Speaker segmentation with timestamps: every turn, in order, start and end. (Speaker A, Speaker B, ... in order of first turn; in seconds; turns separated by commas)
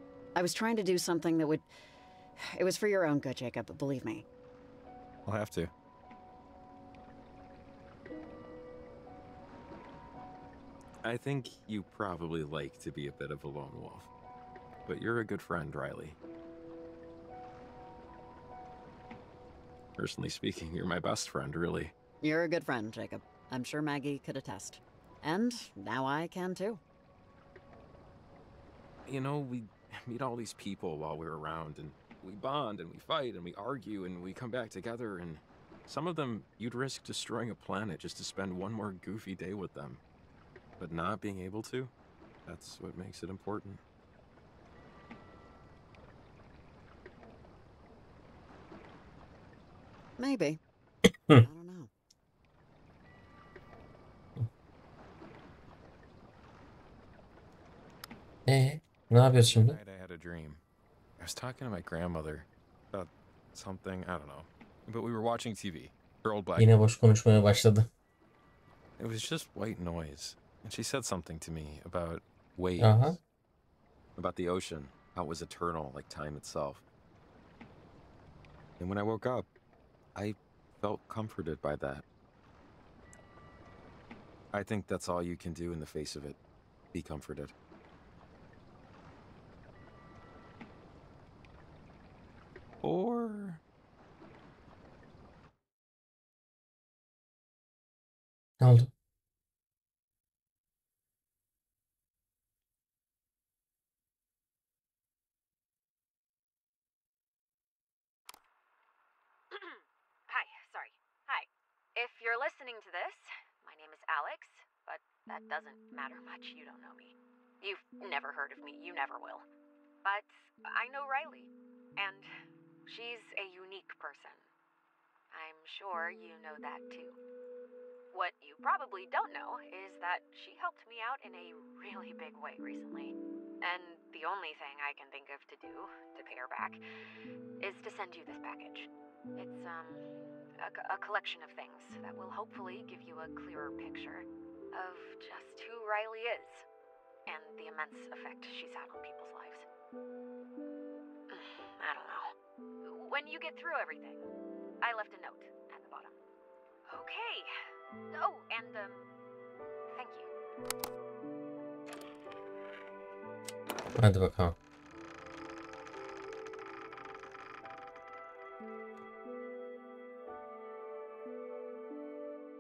Speaker A: 0.3-1.7, Speaker A: 2.4-4.3, Speaker B: 5.3-5.7, Speaker B: 11.0-14.1, Speaker B: 14.9-16.2, Speaker B: 20.0-21.9, Speaker A: 22.2-26.8, Speaker B: 29.1-40.0, Speaker B: 40.8-41.9, Speaker B: 42.5-43.8, Speaker A: 50.2-50.6, Speaker A: 51.4-51.9, Speaker C: 58.5-59.8, Speaker B: 59.4-60.6, Speaker B: 61.2-66.7, Speaker C: 66.6-67.9, Speaker B: 69.0-73.2, Speaker C: 72.8-73.2, Speaker B: 74.2-76.8, Speaker B: 78.8-79.5, Speaker B: 80.2-82.0, Speaker B: 84.5-86.4, Speaker B: 86.9-87.5, Speaker B: 92.8-93.6, Speaker C: 98.6-98.9, Speaker D: 109.5-119.5, Speaker D: 120.0-122.3, Speaker D: 122.9-124.5, Speaker D: 125.3-127.2, Speaker D: 128.1-136.8, Speaker D: 137.6-146.7, Speaker D: 147.3-149.7, Speaker D: 151.3-156.2, Speaker D: 156.9-157.5, Speaker D: 158.1-159.1, Speaker D: 159.9-160.3, Speaker C: 164.0-164.6